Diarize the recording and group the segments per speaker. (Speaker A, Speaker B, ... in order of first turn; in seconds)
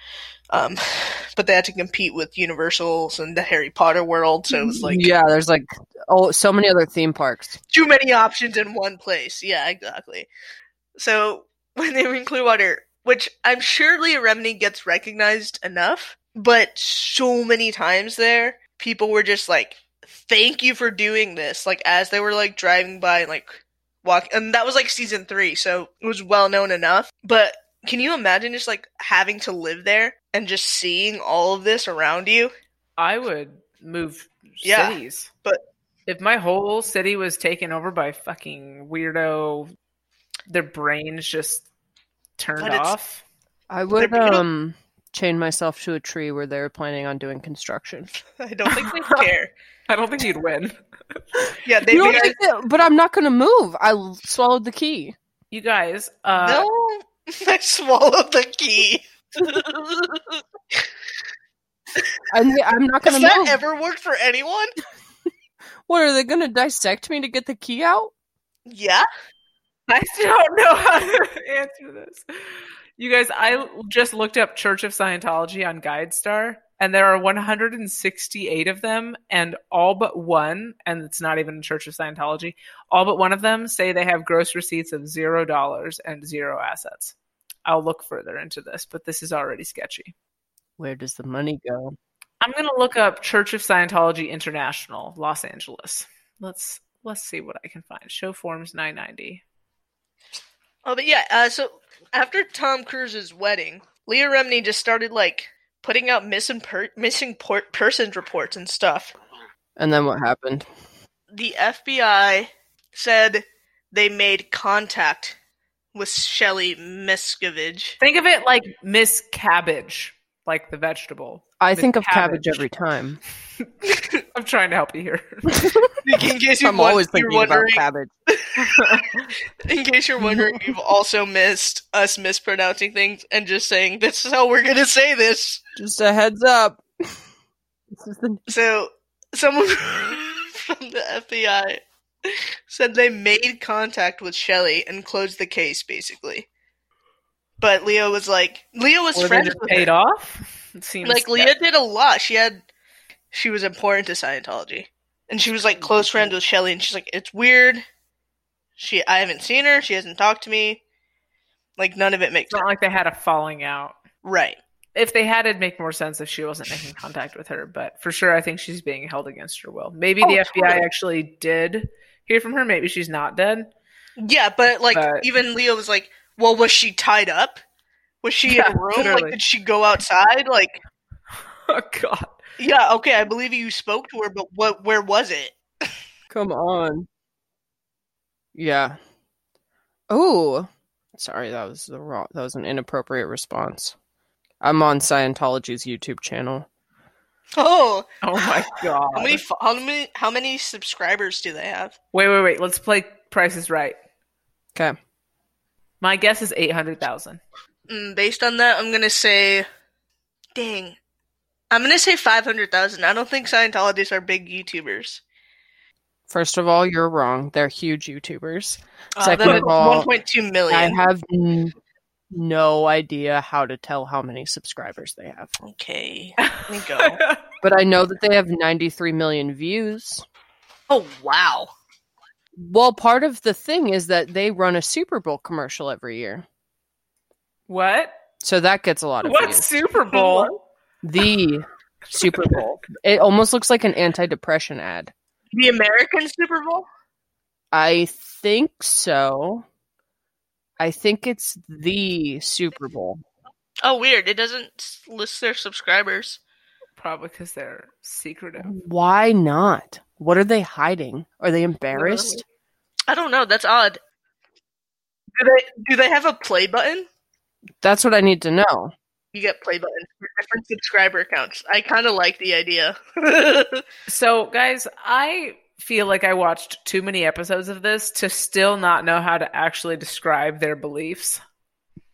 Speaker A: 0.5-5.1, 7.7-10.3, 11.0-32.5, 34.6-35.6, 42.6-42.9, 44.0-44.4, 48.4-49.5, 51.6-52.4, 56.4-60.8, 63.0-64.7, 68.7-69.0, 100.8-109.1, 111.3-115.4, 115.9-118.0, 126.0-129.1, 129.6-135.6, 138.5-146.5, 147.6-149.9, 151.0-152.6, 153.3-157.8, 158.8-160.8, 161.8-162.6, 164.2-164.6, 170.2-170.8, 174.2-177.6, 178.2-180.8, 182.6-185.6, 197.6-198.1, 199.1-201.9, 207.9-209.7, 210.5-211.0, 211.7-215.2, 219.2-221.0, 225.6-227.2, 230.9-231.7, 240.1-240.5, 245.5-246.8, 253.8-256.4, 261.9-262.4, 263.1-264.0, 265.4-267.1, 269.3-273.8
Speaker B: 4.5-7.6, 43.7-48.1, 51.9-55.1, 62.3-63.6, 65.9-68.1, 90.8-92.0, 109.8-110.7, 121.6-123.2, 125.5-125.9, 126.6-128.1, 130.2-130.6, 135.8-137.2, 137.9-138.4, 186.3-187.1, 188.5-189.0, 190.1-193.9, 194.6-196.7, 216.3-220.1, 220.7-221.7, 222.3-225.5, 227.6-230.2, 232.6-236.4, 238.4-239.7, 241.0-245.1, 247.7-249.6, 250.8-253.2, 258.6-262.4, 267.8-268.9
Speaker C: 33.0-35.3, 36.1-39.7, 40.5-41.7, 42.4-43.2, 48.7-49.3, 49.9-50.8, 55.5-56.7, 69.9-87.1, 87.7-90.1, 92.4-99.4, 118.0-122.6, 123.7-125.8, 128.6-129.3, 149.1-151.5, 155.8-156.3, 162.5-164.0, 164.9-173.7, 174.9-175.2, 178.4-179.4, 181.7-182.4, 198.2-199.4, 202.1-204.0, 206.0-207.4, 219.4-219.7, 226.4-227.4, 237.7-238.1, 239.2-240.6, 257.0-258.7, 274.1-281.4